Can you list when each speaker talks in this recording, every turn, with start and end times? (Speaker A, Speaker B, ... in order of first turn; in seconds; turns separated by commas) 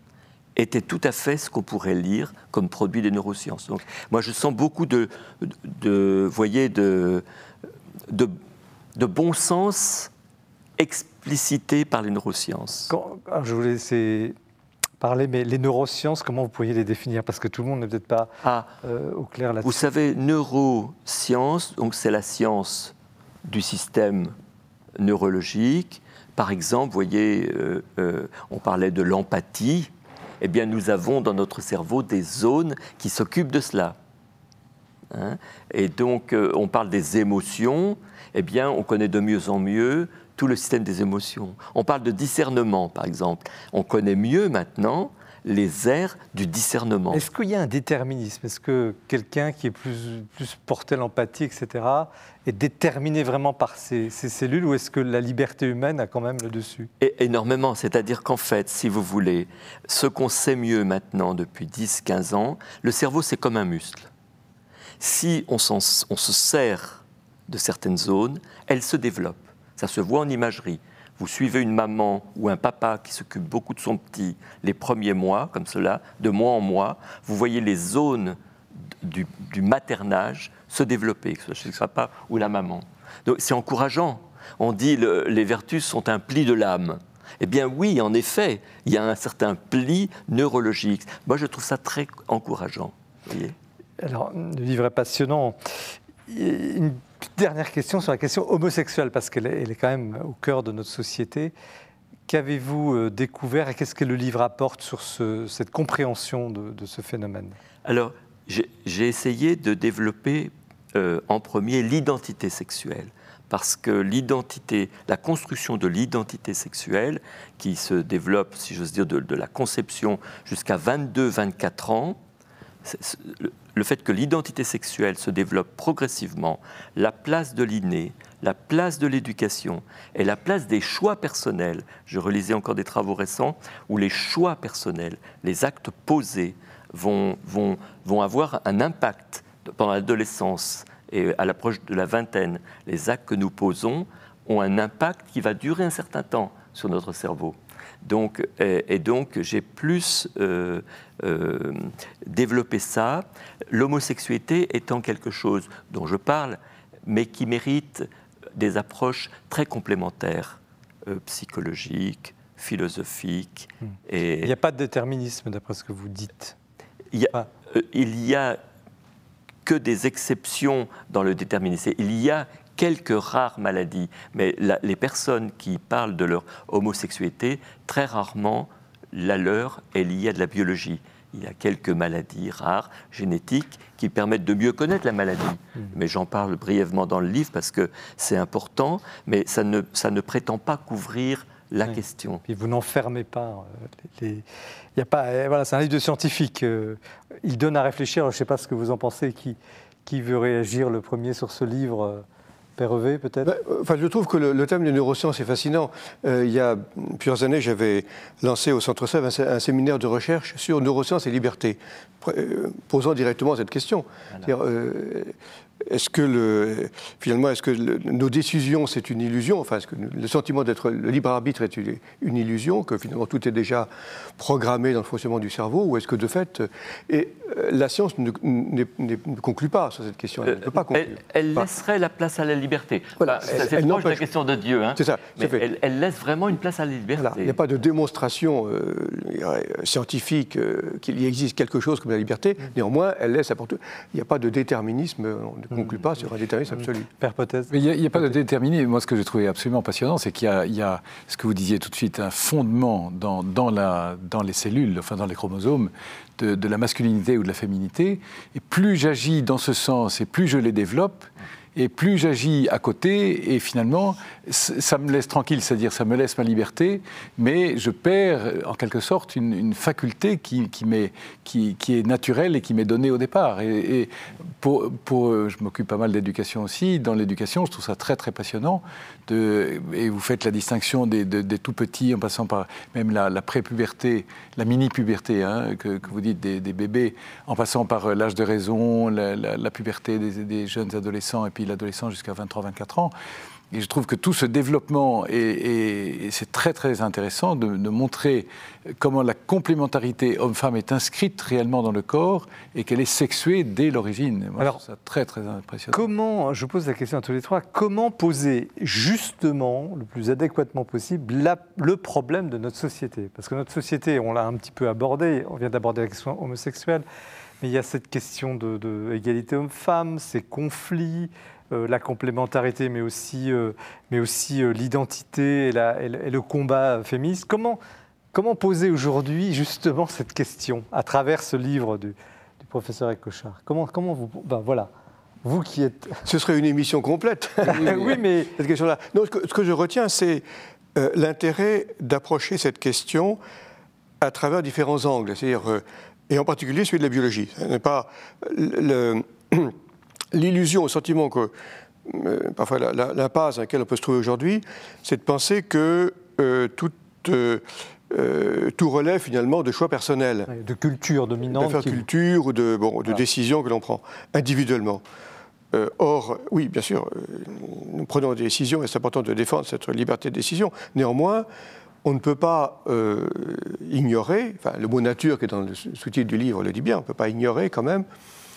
Speaker A: 0.6-7.2, Speaker A: 8.1-8.3, Speaker A: 9.0-10.1, Speaker A: 10.8-12.9, Speaker B: 12.9-14.4, Speaker B: 15.0-18.3, Speaker A: 18.4-18.7, Speaker B: 18.8-19.8, Speaker A: 19.6-24.4, Speaker A: 25.0-34.0, Speaker A: 35.1-47.2, Speaker B: 47.1-56.9, Speaker A: 57.0-64.1, Speaker A: 65.0-93.6, Speaker B: 94.0-95.6, Speaker B: 96.3-101.5, Speaker B: 102.3-107.6, Speaker A: 107.8-122.2, Speaker A: 122.8-164.5, Speaker B: 164.4-166.6, Speaker A: 167.1-168.6, Speaker A: 169.7-192.4, Speaker B: 191.8-194.4, Speaker B: 195.0-202.2, Speaker B: 202.8-203.5, Speaker C: 203.4-215.3, Speaker C: 215.9-231.7, Speaker A: 230.4-237.6, Speaker C: 233.2-234.2, Speaker C: 234.9-235.6, Speaker C: 237.2-247.1, Speaker B: 245.7-246.0, Speaker B: 246.7-248.4, Speaker D: 247.7-293.1, Speaker D: 293.7-298.5, Speaker D: 299.0-306.1, Speaker B: 305.9-317.1, Speaker B: 317.6-327.8, Speaker B: 328.3-334.9, Speaker B: 335.4-336.3, Speaker C: 336.3-343.4, Speaker B: 337.7-338.5, Speaker C: 344.2-349.8, Speaker C: 350.3-351.5, Speaker C: 352.1-360.5, Speaker B: 360.5-362.0, Speaker C: 361.5-365.0, Speaker C: 365.7-371.5, Speaker C: 372.0-378.1